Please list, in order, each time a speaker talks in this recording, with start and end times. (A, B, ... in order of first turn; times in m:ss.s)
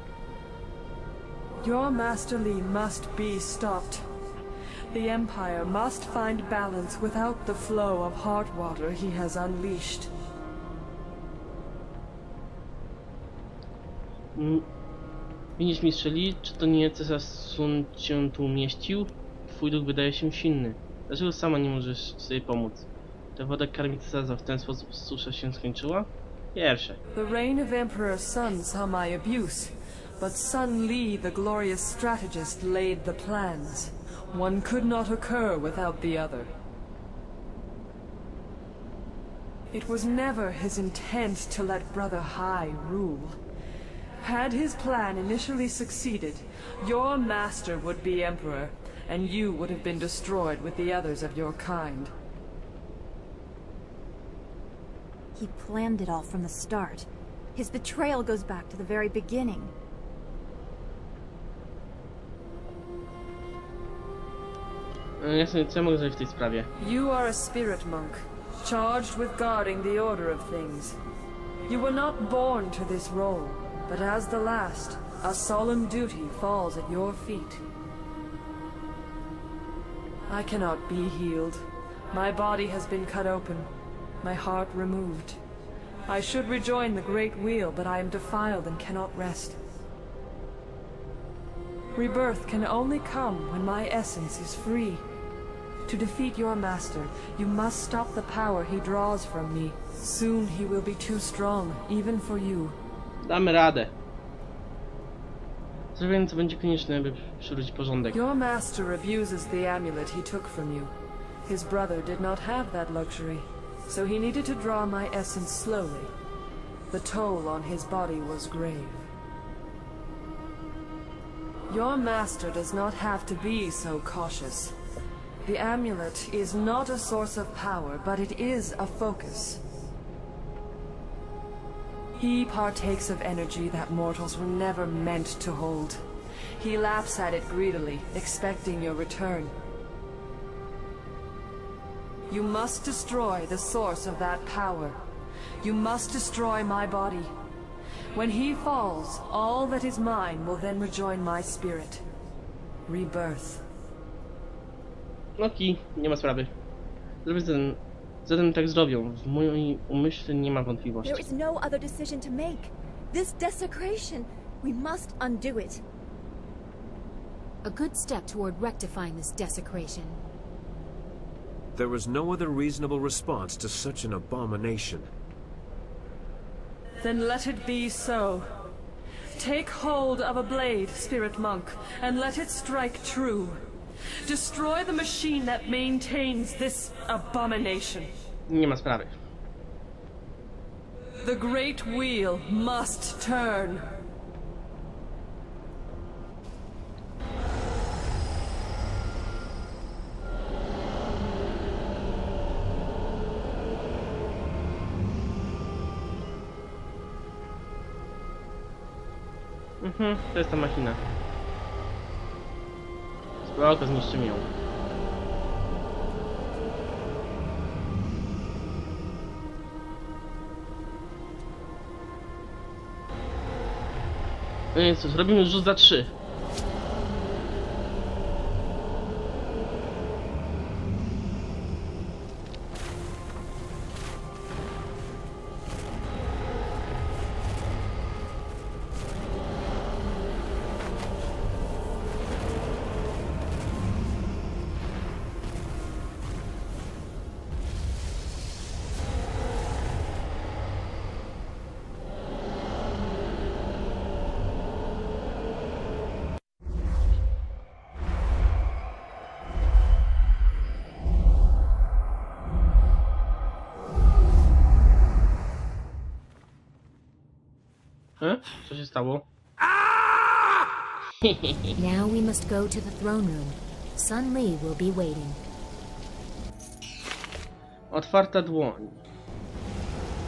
0:01.6-0:04.1 A
0:04.9-0:10.1 A
0:14.3-0:14.6 B
0:15.6-0:27.0 B
0:27.1-0:36.5 A
0:39.7-0:43.4 A
0:44.2-0:52.1 A
0:55.3-0:59.7 C
1:05.2-1:06.7 B
1:06.8-1:11.0 A
1:11.7-1:17.6 A
1:20.3-1:23.7 A
1:24.2-1:25.4 A
1:26.1-1:29.6 A
1:31.9-1:35.0 A
1:35.9-1:42.8 A
1:43.2-1:43.9 B
1:45.9-1:48.2 B
1:48.1-1:50.9 A
1:51.4-1:56.1 A
1:56.9-1:59.1 A
2:01.7-2:04.7 A
2:05.4-2:09.6 A
2:12.2-2:16.0 A
2:16.6-2:19.5 A
2:22.3-2:25.0 A
2:25.6-2:27.3 A
2:28.1-2:32.0 A
2:32.9-2:33.6 A
2:35.4-2:36.5 B
2:37.2-2:41.2 B
2:41.0-2:45.8 C
2:47.6-2:50.2 D
2:51.7-2:55.1 E
2:57.0-2:58.6 A
2:59.4-3:03.6 A
3:04.2-3:08.1 A
3:08.5-3:09.1 B
3:11.2-3:13.9 A
3:29.8-3:31.0 B
3:33.4-3:34.5 B
3:44.7-3:46.1 B
4:28.2-4:29.2 B
4:31.2-4:31.8 B
4:31.8-4:35.4 D
4:37.9-4:39.0 B